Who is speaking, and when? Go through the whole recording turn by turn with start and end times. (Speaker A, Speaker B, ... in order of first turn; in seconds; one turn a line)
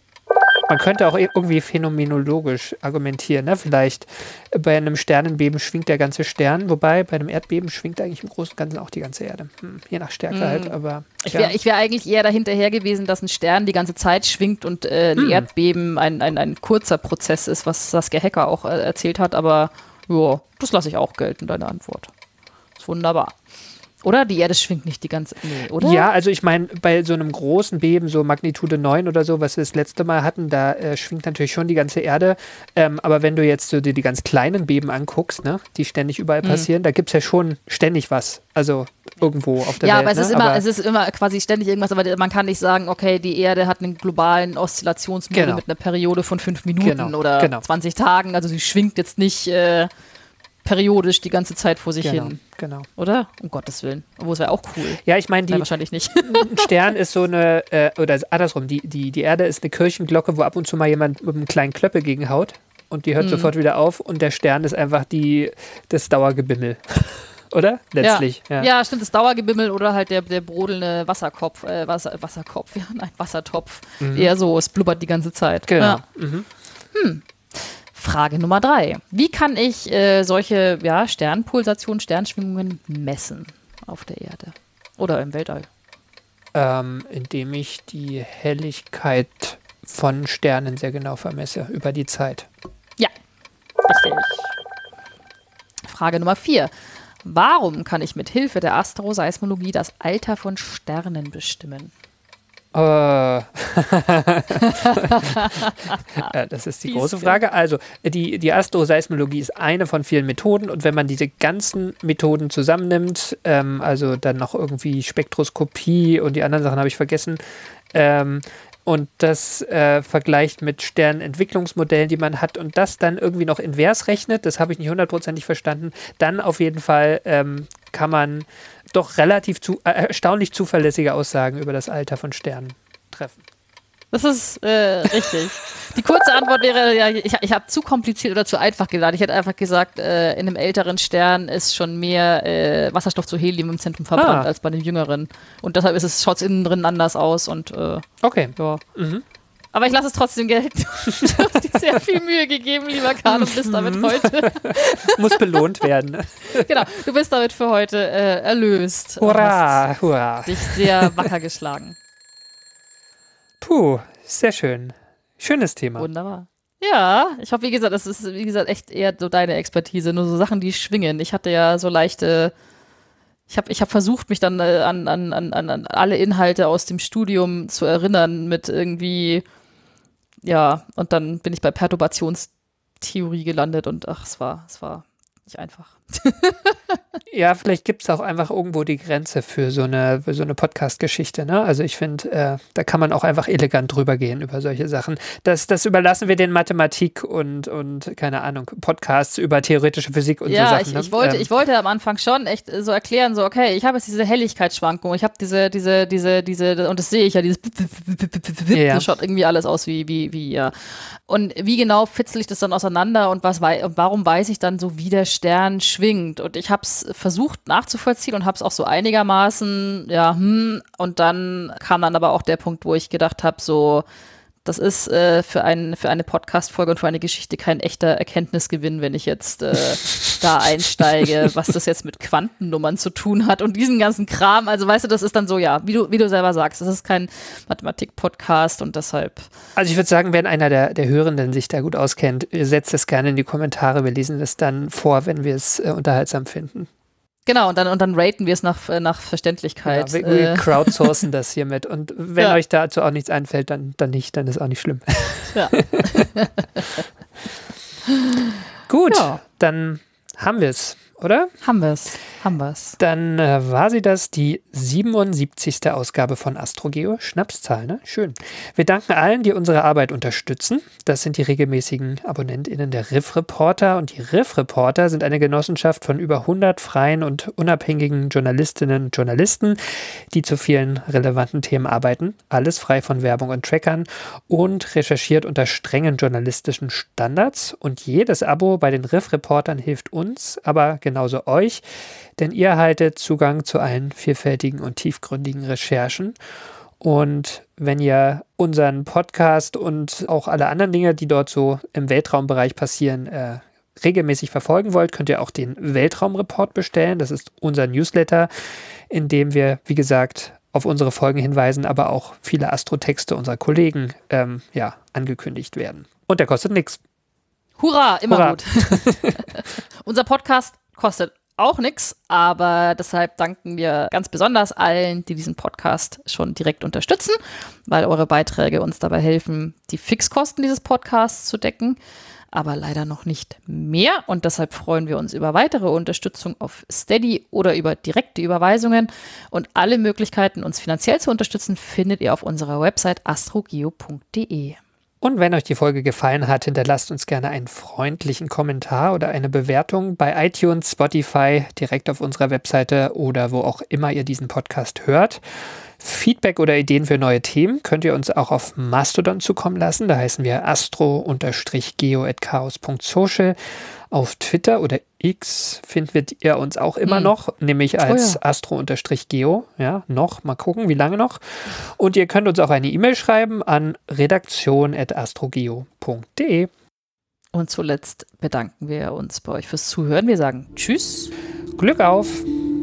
Speaker A: 0.7-11.5
Speaker B: 10.3-22.1
Speaker A: 15.2-15.5
Speaker B: 22.8-23.3
Speaker B: 24.0-26.1
Speaker A: 25.8-40.6
Speaker B: 39.8-49.9
Speaker A: 45.3-45.6
Speaker A: 46.8-47.6
Speaker B: 50.6-52.4
Speaker A: 52.0-52.9
Speaker B: 53.0-56.7
Speaker A: 55.0-68.7
Speaker B: 63.2-63.5
Speaker B: 68.0-76.0
Speaker A: 74.0-74.3
Speaker A: 75.7-76.5
Speaker B: 76.9-85.7
Speaker A: 86.5-92.5
Speaker B: 93.9-94.5
Speaker B: 95.8-96.7
Speaker B: 97.2-101.9
Speaker A: 102.7-105.5
Speaker B: 104.6-106.3
Speaker A: 106.1-117.4
Speaker B: 106.8-107.4
Speaker A: 117.9-133.4
Speaker B: 134.1-148.0
Speaker A: 144.2-144.5
Speaker A: 148.2-149.2
Speaker B: 148.6-148.8
Speaker B: 149.7-155.6
Speaker A: 153.2-156.8
Speaker B: 156.5-159.8
Speaker A: 159.2-161.3
Speaker B: 160.4-161.9
Speaker A: 163.6-166.1
Speaker B: 166.0-172.5
Speaker B: 173.5-179.4
Speaker B: 180.4-182.5
Speaker B: 183.0-187.0
Speaker A: 187.3-201.5
Speaker B: 200.5-210.7
Speaker A: 208.7-209.1
Speaker B: 211.3-224.0
Speaker B: 224.6-239.5
Speaker A: 239.8-246.9
Speaker B: 247.5-251.2
Speaker A: 249.8-256.2
Speaker B: 255.5-256.8
Speaker A: 258.9-261.5
Speaker B: 259.1-259.4
Speaker B: 261.6-263.0
Speaker A: 263.0-291.8
Speaker A: 292.4-296.4
Speaker A: 297.0-308.5
Speaker A: 309.1-317.0
Speaker B: 317.8-332.0
Speaker A: 318.3-319.4
Speaker B: 332.5-344.8
Speaker A: 345.2-355.4
Speaker A: 356.0-363.6
Speaker A: 364.1-376.7
Speaker B: 367.1-367.3
Speaker B: 368.0-368.4
Speaker B: 377.5-381.3
Speaker A: 381.8-382.5